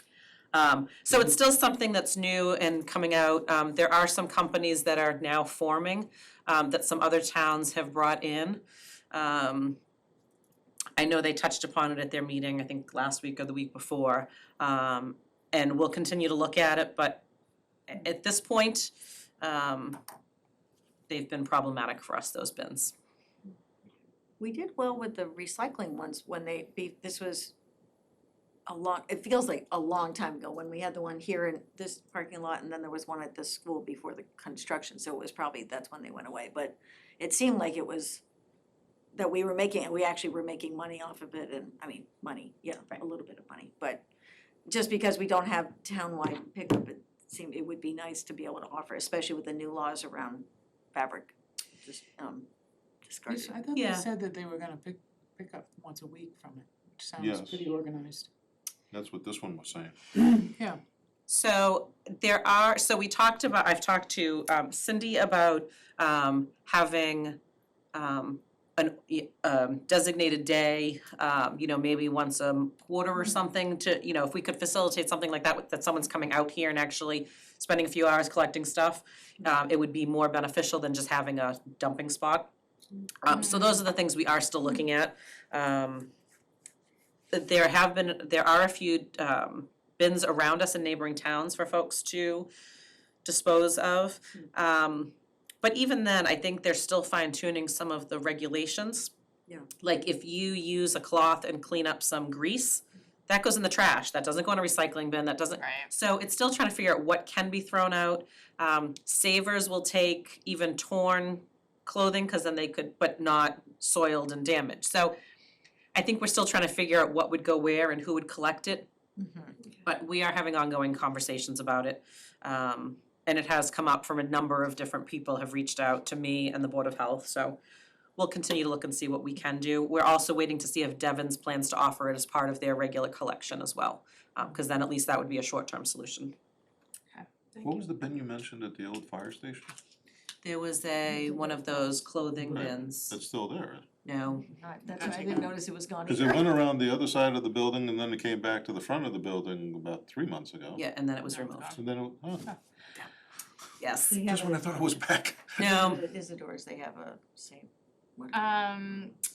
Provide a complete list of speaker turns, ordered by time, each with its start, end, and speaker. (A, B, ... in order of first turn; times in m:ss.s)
0:00.5-0:09.8 A
0:11.0-0:17.2 A
0:17.9-0:20.0 A
0:21.1-0:22.9 A
0:24.4-0:27.5 B
0:28.7-0:38.2 B
0:39.1-0:44.0 B
0:44.7-0:52.5 B
0:53.0-0:53.6 B
0:53.3-0:58.3 C
0:53.7-0:54.1 A
0:57.2-0:57.6 D
0:58.9-1:00.4 D
1:00.5-1:00.8 C
1:01.3-1:07.4 A
1:07.9-1:22.5 A
1:23.2-1:26.1 A
1:23.3-1:23.8 E
1:27.3-1:32.5 A
1:33.2-1:39.1 A
1:39.8-1:55.2 A
1:45.6-1:45.9 E
1:55.9-1:58.9 A
1:59.2-1:59.6 B
1:59.8-2:07.6 A
2:08.2-2:16.4 A
2:17.1-2:17.7 E
2:17.6-2:19.7 D
2:20.4-2:23.2 A
2:22.4-2:23.9 D
2:24.0-2:24.5 A
2:24.4-2:26.5 B
2:24.9-2:25.5 E
2:26.1-2:30.8 D
2:30.8-2:31.8 A
2:31.3-2:31.8 E
2:31.7-2:32.5 D
2:33.8-2:34.2 A
2:34.1-2:34.9 B
2:34.1-2:35.7 D
2:35.6-2:36.0 A
2:35.6-2:38.5 B
2:38.3-2:39.2 E